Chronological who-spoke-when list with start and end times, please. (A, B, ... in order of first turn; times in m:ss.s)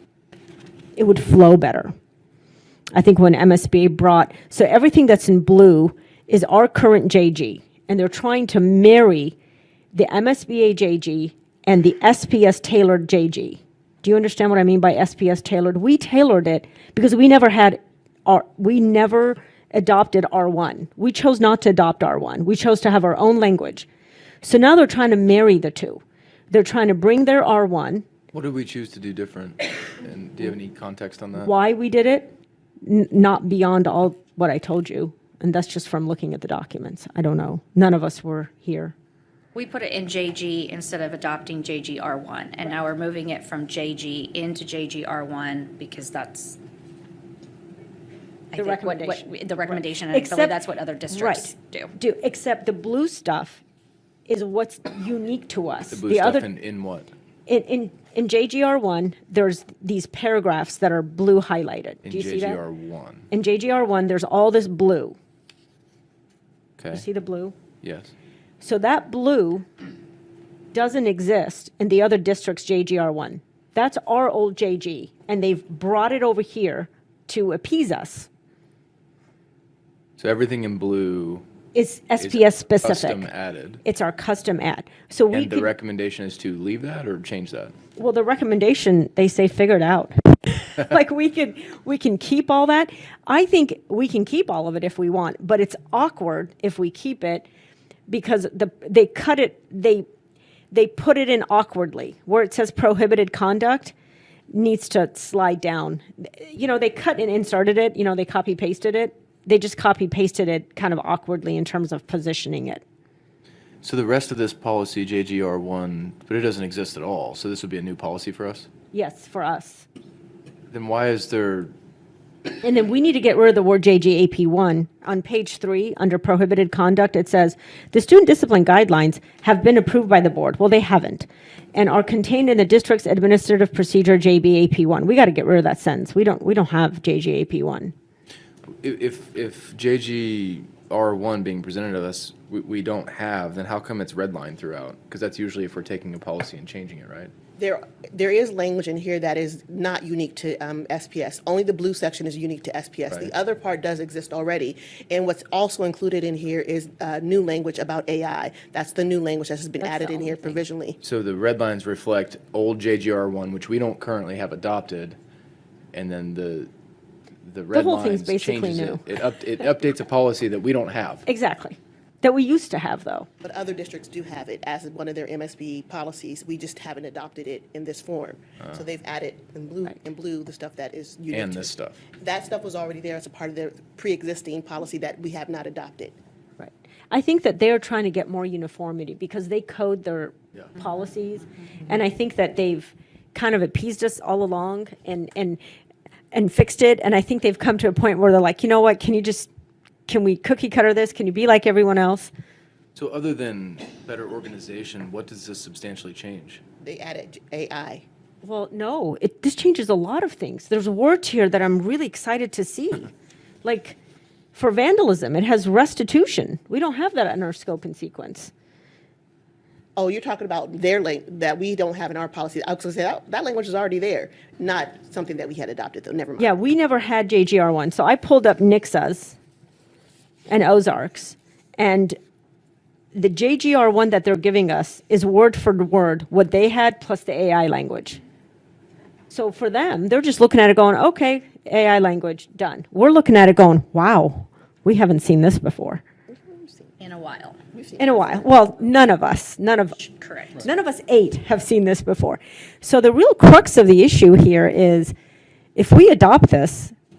0:01.0-0:01.9 A
0:02.9-0:09.4 A
0:09.9-0:23.9 A
0:24.4-0:28.0 A
0:28.3-0:31.5 B
0:31.4-0:39.0 A
0:39.5-0:46.6 C
0:48.5-0:51.9 C
0:48.6-0:49.3 A
0:50.1-0:50.6 A
0:51.1-0:53.6 A
0:54.3-0:56.5 A
0:55.9-0:57.1 B
0:57.5-1:02.6 A
1:02.0-1:03.3 B
1:03.3-1:05.2 A
1:06.8-1:07.0 B
1:06.9-1:07.6 A
1:07.8-1:08.1 B
1:08.6-1:09.7 A
1:10.7-1:18.3 A
1:20.2-1:21.4 B
1:21.7-1:23.3 A
1:22.2-1:23.8 B
1:23.8-1:25.7 A
1:25.3-1:27.8 B
1:28.0-1:37.5 A
1:38.1-1:40.1 A
1:40.7-1:43.9 A
1:44.5-1:52.8 A
1:53.8-1:58.7 B
1:58.9-1:59.8 A
2:00.7-2:01.7 B
2:02.6-2:17.9 A
2:18.8-2:27.3 B
2:27.6-2:41.0 D
2:39.8-2:40.6 A
2:41.0-2:45.2 B
2:45.9-2:46.7 B
2:47.4-2:51.2 B
2:47.7-2:49.1 A
2:51.2-2:53.3 A
2:53.4-3:06.2 D
3:01.3-3:02.0 B
3:06.6-3:15.6 A
3:16.3-3:19.5 A
3:20.1-3:22.3 A
3:22.9-3:26.6 B
3:26.8-3:28.0 D
3:28.4-3:33.1 A
3:33.6-3:34.0 A
3:34.5-3:38.5 A
3:40.0-3:46.5 D
3:46.4-3:49.4 A
3:50.5-3:52.2 A
3:53.1-3:58.2 A
3:59.3-4:06.0 A
4:06.3-4:06.9 D
4:07.0-4:07.6 C
4:07.7-4:08.4 D
4:08.0-4:10.0 A
4:10.0-4:10.7 C
4:10.6-4:15.1 A
4:15.8-4:16.9 A